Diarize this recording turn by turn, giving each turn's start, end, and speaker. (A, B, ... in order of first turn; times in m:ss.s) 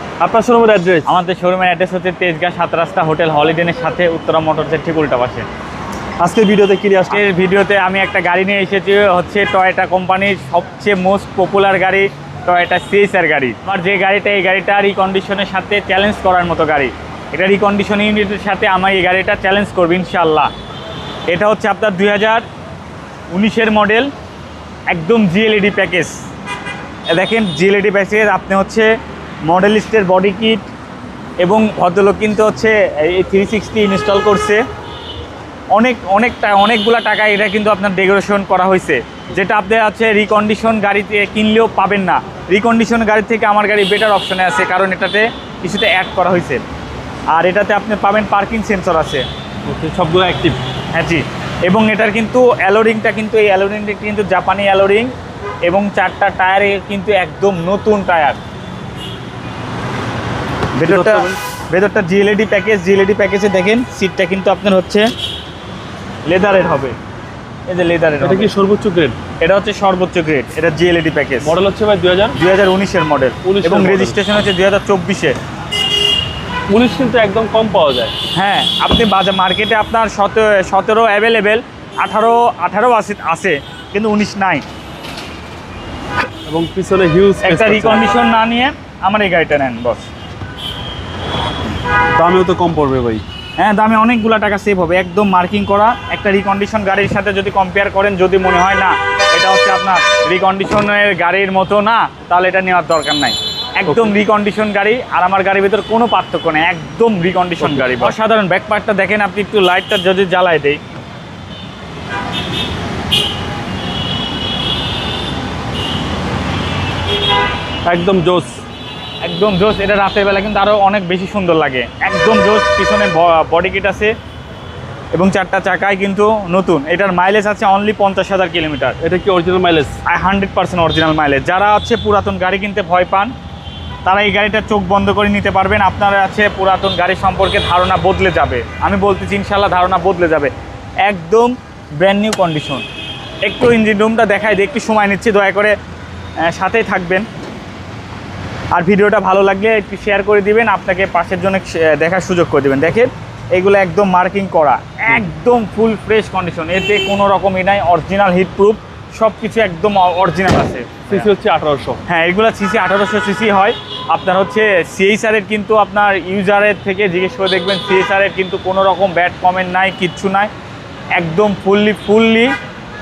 0:00.2-0:01.2 A
0:01.0-0:05.4 B
0:06.2-0:07.2 A
0:07.1-0:20.5 B
0:21.3-0:22.4 B
0:23.3-0:24.1 B
0:24.9-0:26.1 B
0:27.1-0:28.9 B
0:29.4-0:30.7 B
0:31.4-0:34.6 B
0:35.7-0:46.6 B
0:47.3-0:49.2 B
0:49.7-0:50.6 A
0:50.9-0:55.1 B
0:55.6-0:58.4 B
1:00.7-1:05.1 B
1:00.8-1:01.4 A
1:06.2-1:07.0 B
1:07.7-1:08.5 B
1:08.2-1:09.2 A
1:09.4-1:11.5 B
1:11.4-1:12.4 A
1:12.4-1:15.4 B
1:13.4-1:14.2 A
1:16.7-1:18.1 A
1:18.3-1:24.6 B
1:26.5-1:28.2 A
1:27.4-1:30.1 B
1:32.1-1:33.2 A
1:33.6-1:50.8 B
1:43.9-1:44.1 A
1:47.6-1:48.1 A
1:57.8-1:58.6 A
1:59.2-2:04.1 B
2:05.1-2:09.0 B
2:09.0-2:10.0 A
2:10.0-2:13.3 B
2:14.0-2:20.5 B
2:21.0-2:22.8 B
2:23.4-2:25.8 B
2:26.4-2:27.3 B
2:28.7-2:41.3 B
2:41.1-2:42.0 A
2:42.1-2:50.5 B
2:51.1-2:52.5 B